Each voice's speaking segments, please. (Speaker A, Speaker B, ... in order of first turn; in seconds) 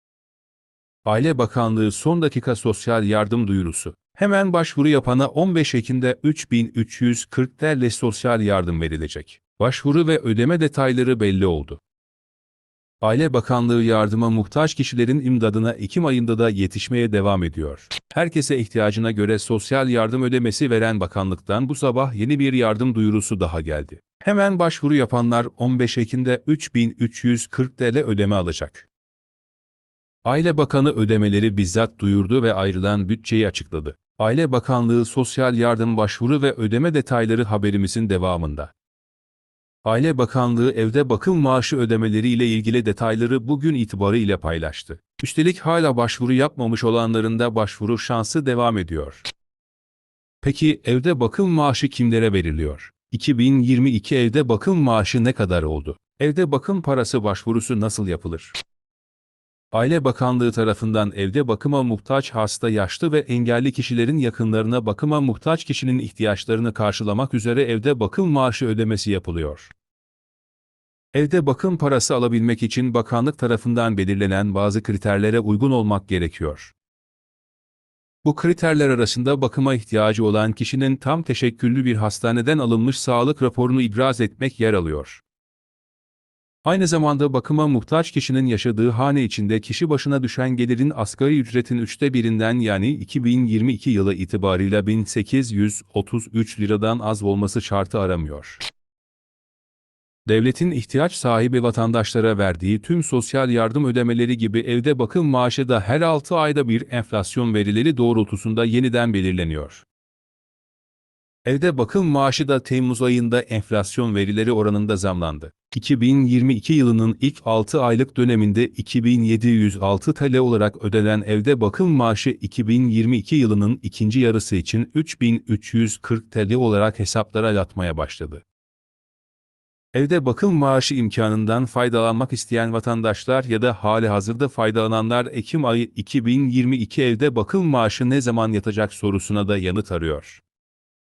Speaker A: 1.1-11.8, 13.0-28.9, 30.2-38.7, 39.8-49.2, 50.4-58.5, 59.7-69.7, 71.1-76.7, 78.2-85.2, 86.6-98.6, 100.2-109.8, 111.5-128.4, 129.9-140.4